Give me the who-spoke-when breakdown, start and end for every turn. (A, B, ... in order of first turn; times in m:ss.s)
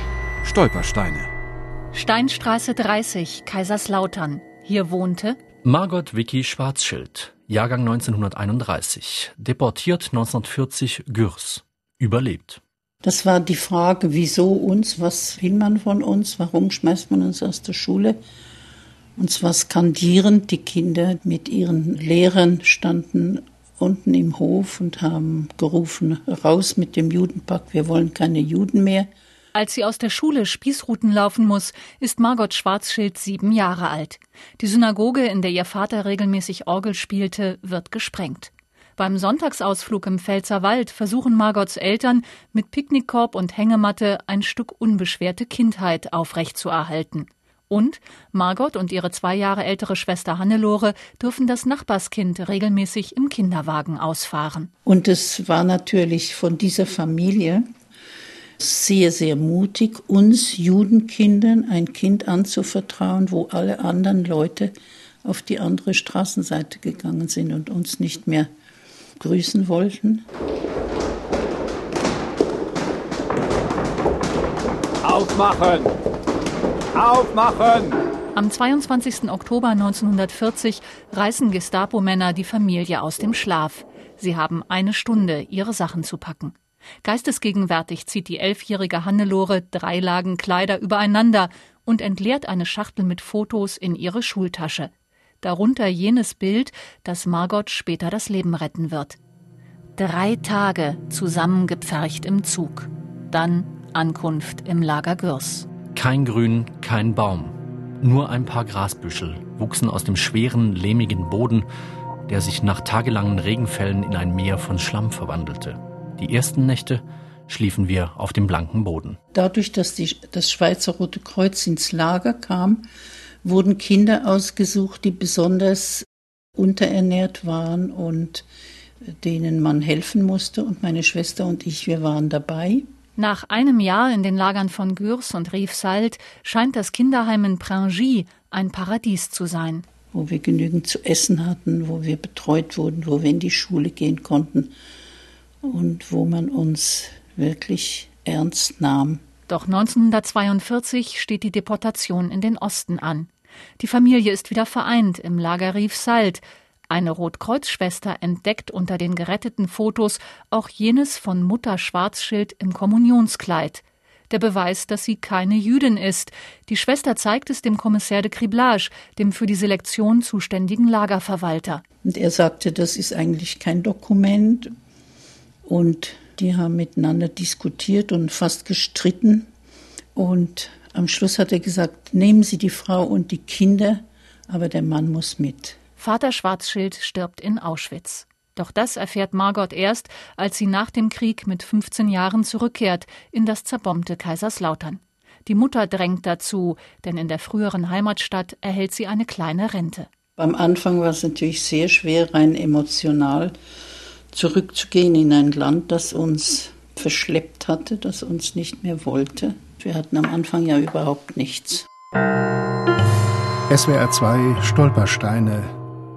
0:00.4-0:01.3 A
0:01.9-0:05.4 B
0:05.6-0:12.6 C
0:13.0-0:18.2 D
0:19.2-0:29.1 D
0:29.5-0:54.7 B
0:54.8-0:57.6 D
0:58.6-1:08.5 D
1:09.2-1:10.2 D
1:15.0-1:15.9 A
1:16.9-1:18.0 A
1:18.3-1:39.2 B
1:40.0-1:45.7 B
1:45.9-1:51.7 C
1:52.3-1:59.2 C
1:59.3-2:02.8 D
2:03.4-2:06.0 D
2:06.6-2:08.4 D
2:09.2-2:12.8 D
2:13.2-2:19.8 B
2:20.1-2:24.7 D
2:25.6-2:29.2 D
2:29.5-2:51.8 B
2:52.0-2:54.7 D
2:55.6-2:59.5 D
3:00.1-3:05.8 D
3:06.0-3:20.1 B
3:20.4-3:23.5 D
3:24.3-3:31.8 D
3:33.7-3:35.7 E